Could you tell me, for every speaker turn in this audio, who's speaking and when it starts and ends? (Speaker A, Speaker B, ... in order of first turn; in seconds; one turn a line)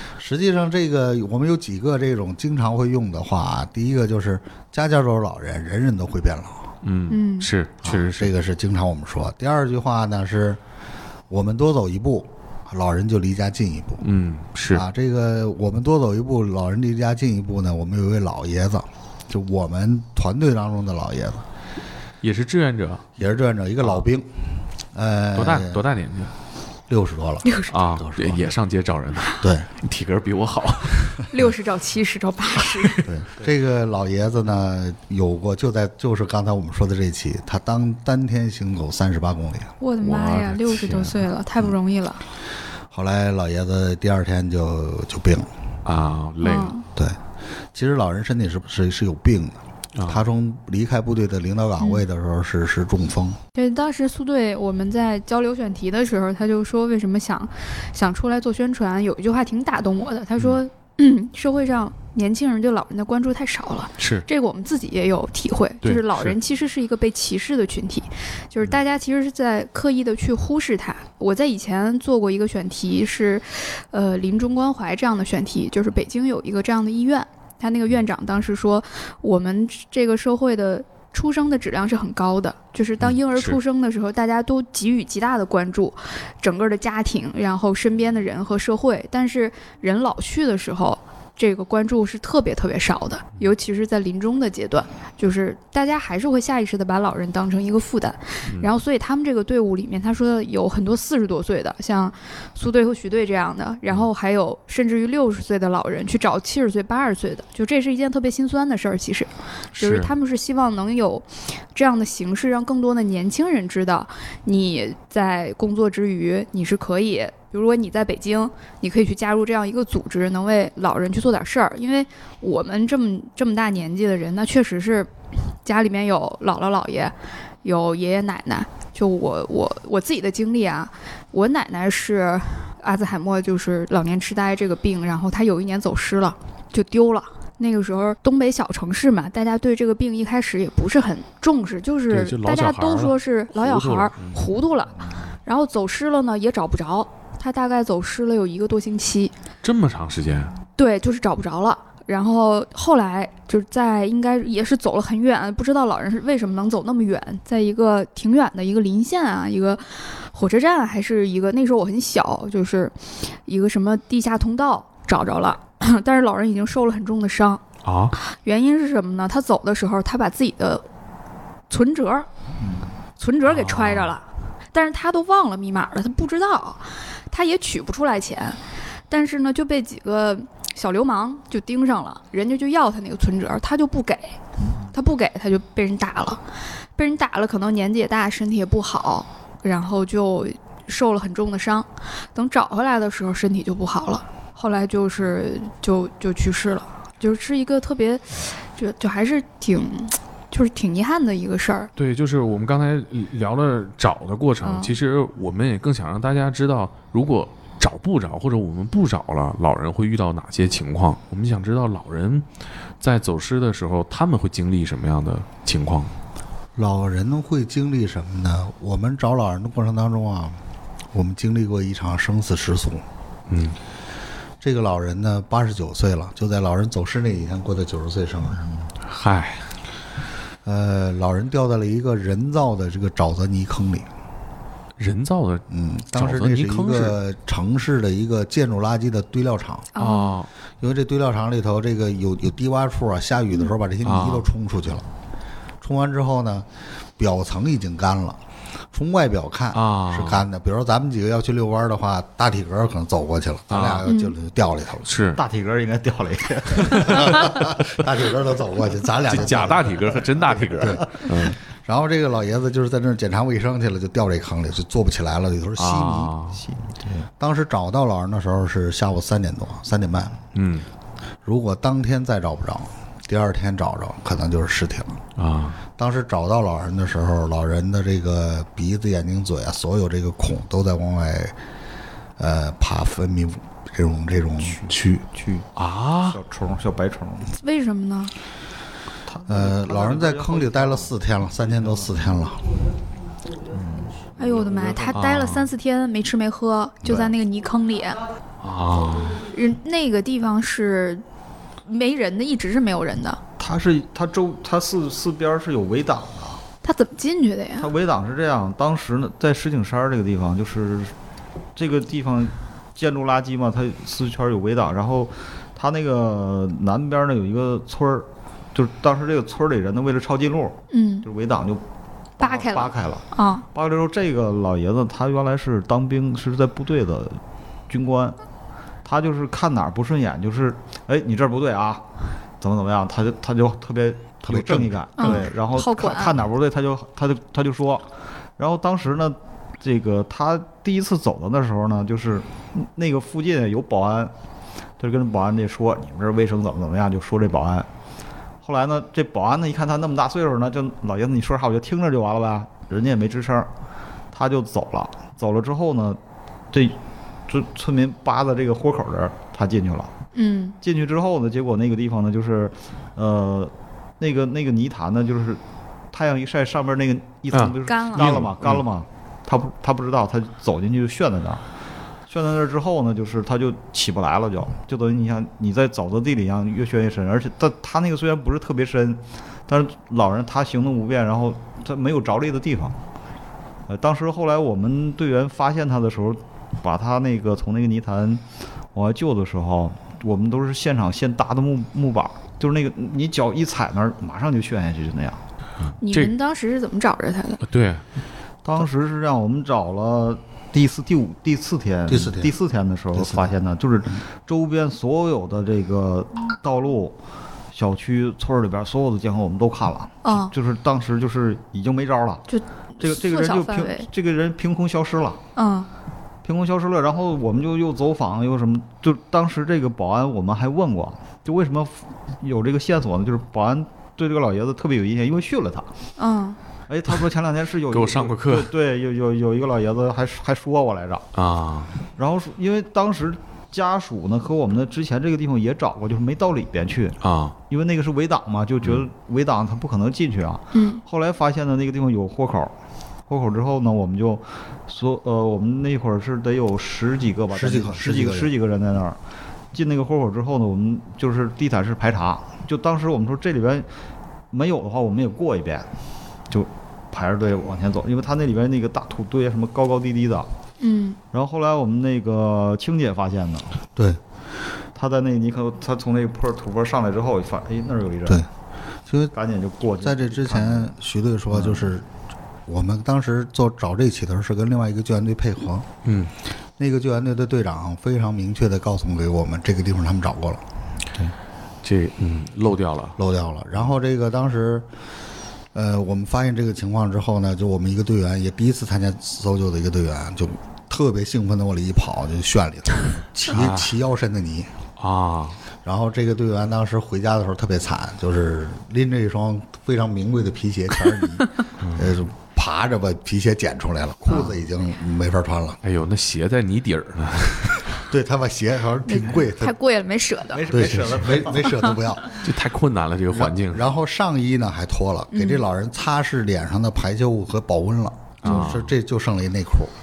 Speaker A: 0.2-6.7
Speaker B: 6.8-8.3
Speaker C: 7.1-7.5
Speaker A: 7.8-10.6
Speaker A: 11.3-14.1
Speaker B: 14.0-14.8
Speaker A: 14.7-21.4
Speaker B: 22.2-23.1
Speaker A: 23.2-24.3
Speaker A: 24.9-25.8
Speaker B: 25.4-26.3
Speaker A: 26.9-28.5
Speaker C: 27.4-27.7
Speaker B: 27.7-31.2
Speaker A: 29.4-29.7
Speaker C: 31.3-33.0
Speaker B: 32.6-33.1
Speaker A: 33.0-39.8
Speaker C: 39.8-42.2
Speaker B: 40.0-41.2
Speaker A: 42.9-45.5
Speaker B: 45.9-46.8
Speaker C: 46.4-46.9
Speaker A: 47.7-53.4
Speaker B: 50.0-50.2
Speaker C: 53.5-125.1
Speaker B: 64.0-64.3
Speaker B: 65.8-66.4
Speaker B: 83.0-83.6
Speaker B: 98.5-98.7
Speaker B: 109.8-110.1
Speaker C: 125.6-149.3
Speaker B: 142.1-144.4
Speaker B: 149.6-150.5
Speaker C: 150.8-167.6
Speaker B: 167.8-168.2
Speaker C: 168.2-170.8
Speaker C: 171.7-172.3
Speaker D: 172.6-172.9
Speaker C: 173.2-178.6
Speaker B: 173.4-174.2
Speaker C: 179.1-184.4
Speaker D: 184.6-184.9
Speaker C: 184.9-186.4
Speaker C: 187.0-201.9
Speaker B: 202.0-212.5
Speaker C: 204.6-204.9
Speaker B: 213.0-216.1
Speaker A: 216.8-220.6
Speaker A: 221.1-223.0
Speaker B: 223.5-223.8
Speaker A: 224.6-228.7
Speaker B: 229.1-229.7
Speaker A: 230.7-234.1
Speaker B: 235.0-237.2
Speaker A: 235.7-239.9
Speaker C: 239.9-240.4
Speaker B: 240.0-240.5
Speaker A: 240.8-245.1
Speaker B: 244.0-244.5
Speaker A: 245.8-246.7
Speaker A: 247.2-248.4
Speaker A: 248.9-255.1
Speaker B: 249.7-250.4
Speaker B: 253.7-254.1
Speaker C: 254.1-254.3
Speaker B: 255.1-255.4
Speaker D: 255.4-257.4
Speaker B: 256.9-257.3
Speaker A: 257.0-260.0
Speaker B: 259.3-261.6
Speaker A: 260.7-266.3
Speaker B: 265.8-266.6
Speaker D: 266.5-267.3
Speaker A: 267.4-270.4
Speaker B: 270.5-270.9
Speaker A: 271.4-275.2
Speaker B: 275.4-275.8
Speaker A: 276.0-281.6
Speaker A: 282.4-285.2
Speaker D: 284.6-285.7
Speaker B: 285.8-286.4
Speaker D: 286.2-287.5
Speaker C: 287.6-288.3
Speaker D: 289.3-291.1
Speaker A: 289.5-292.7
Speaker D: 291.8-292.2
Speaker D: 293.7-295.2
Speaker C: 294.4-298.2
Speaker B: 295.1-295.7
Speaker A: 297.0-297.3
Speaker B: 298.6-299.4
Speaker C: 299.4-301.2
Speaker C: 301.9-303.4
Speaker D: 303.6-306.6
Speaker C: 306.8-307.9
Speaker D: 307.8-311.1
Speaker D: 311.8-321.8
Speaker C: 320.9-321.3
Speaker D: 322.4-328.4
Speaker C: 322.4-323.6
Speaker D: 329.0-332.0
Speaker D: 332.6-344.3
Speaker A: 334.4-335.4
Speaker C: 335.2-336.4
Speaker D: 345.0-347.9
Speaker D: 348.6-353.7
Speaker D: 354.3-356.2
Speaker D: 356.7-360.1
Speaker C: 360.3-360.8
Speaker D: 360.8-365.6
Speaker D: 366.1-371.6
Speaker B: 367.5-368.8
Speaker C: 367.9-368.4
Speaker D: 372.3-383.0
Speaker D: 383.9-388.4
Speaker D: 388.9-395.4
Speaker B: 395.9-396.3
Speaker C: 396.0-397.6
Speaker B: 397.6-398.0
Speaker D: 398.6-407.2
Speaker A: 402.1-402.5
Speaker A: 403.2-403.4
Speaker D: 407.7-412.4
Speaker C: 410.2-410.5
Speaker C: 412.5-414.1
Speaker D: 413.0-415.4
Speaker C: 415.6-415.9
Speaker D: 416.4-425.9
Speaker C: 426.2-426.6
Speaker D: 426.9-431.3
Speaker B: 427.9-428.7
Speaker B: 431.3-431.9
Speaker D: 432.2-437.2
Speaker B: 437.2-437.6
Speaker D: 437.7-442.7
Speaker C: 440.7-441.0
Speaker D: 443.3-449.2
Speaker A: 447.5-448.5
Speaker D: 449.7-453.9
Speaker D: 454.5-455.9
Speaker D: 456.5-460.5
Speaker C: 460.8-461.2
Speaker D: 461.3-463.7
Speaker D: 465.0-468.4
Speaker A: 469.1-469.3
Speaker D: 469.3-470.9
Speaker A: 470.0-472.1
Speaker D: 471.5-471.9
Speaker A: 472.7-475.9
Speaker B: 476.1-476.3
Speaker A: 476.8-480.6
Speaker B: 481.8-483.2
Speaker A: 483.2-484.9
Speaker A: 485.7-494.7
Speaker B: 493.5-493.9
Speaker B: 495.0-495.6
Speaker A: 495.9-505.8
Speaker B: 501.8-502.1
Speaker B: 505.8-507.9
Speaker A: 508.1-509.8
Speaker C: 509.1-510.7
Speaker D: 510.5-511.8
Speaker A: 510.7-512.4
Speaker B: 512.4-513.9
Speaker A: 513.3-519.9
Speaker C: 515.3-515.6
Speaker B: 518.4-518.9